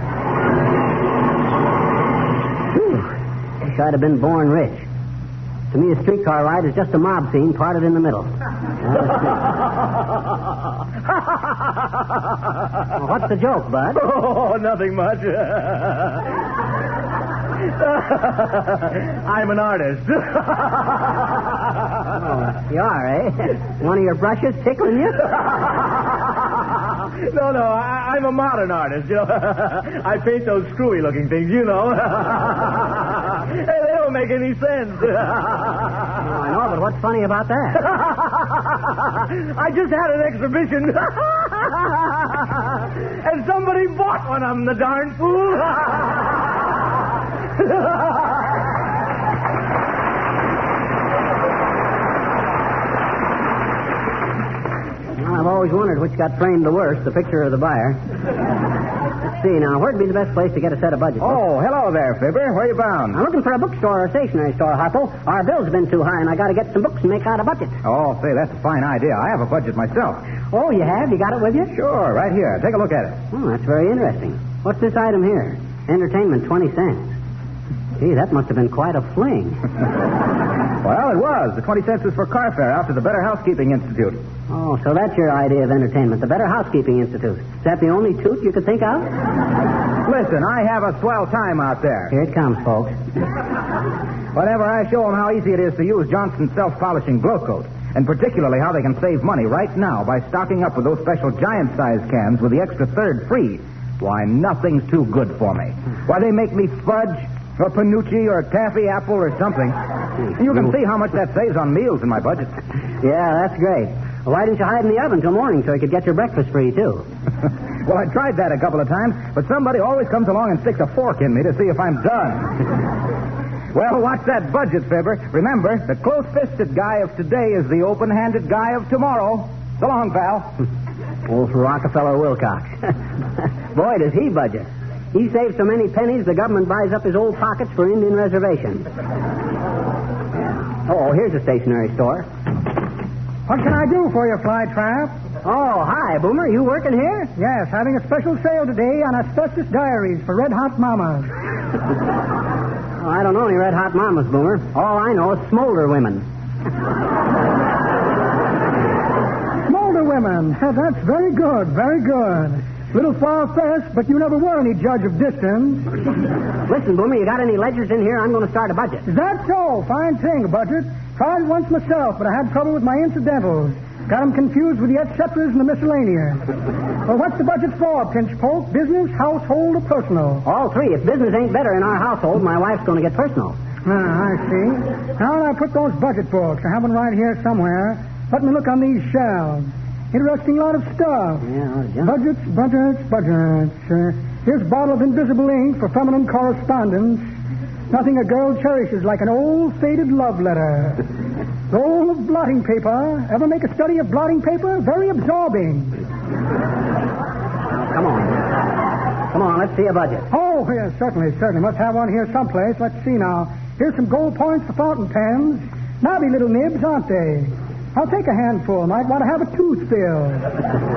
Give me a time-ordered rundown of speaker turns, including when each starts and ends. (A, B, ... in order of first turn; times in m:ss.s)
0:02.8-0:03.1 A
0:03.6-0:04.9 A
0:05.7-0:08.3 A
0:12.9-0:14.0 A
0:14.0-0:16.2 B
0:17.9-0:21.2 B
0:22.1-0:25.3 A
0:27.1-0:36.0 B
0:36.2-0:37.8 A
0:37.9-0:46.3 B
0:55.2-0:58.0 A
0:59.3-1:01.4 A
1:01.2-1:03.2 B
1:03.1-1:07.8 A
1:07.8-1:10.2 B
1:10.5-1:11.7 A
1:11.7-1:13.2 B
1:13.3-1:17.2 A
1:18.0-1:19.6 A
1:20.8-1:24.2 B
1:24.5-1:29.1 A
1:30.0-1:32.1 B
1:32.1-1:32.9 A
1:34.3-1:49.8 B
1:50.4-1:52.6 B
1:53.0-1:57.0 A
1:57.8-2:02.5 B
2:03.7-2:10.6 B
2:11.3-2:18.8 A
2:20.3-2:22.2 A
2:23.5-2:25.1 C
2:25.4-2:27.3 A
2:27.4-2:31.3 C
2:33.0-2:36.2 A
2:39.7-2:46.0 C
2:46.7-2:49.0 A
2:49.1-2:56.4 C
2:57.1-3:00.4 C
3:00.4-3:03.6 A
3:03.8-3:11.5 C
3:11.4-3:12.2 A
3:12.0-3:17.3 C
3:17.9-3:21.0 C
3:21.7-3:26.0 C
3:27.7-3:28.4 A
3:29.3-3:30.3 A
3:30.3-3:40.6 C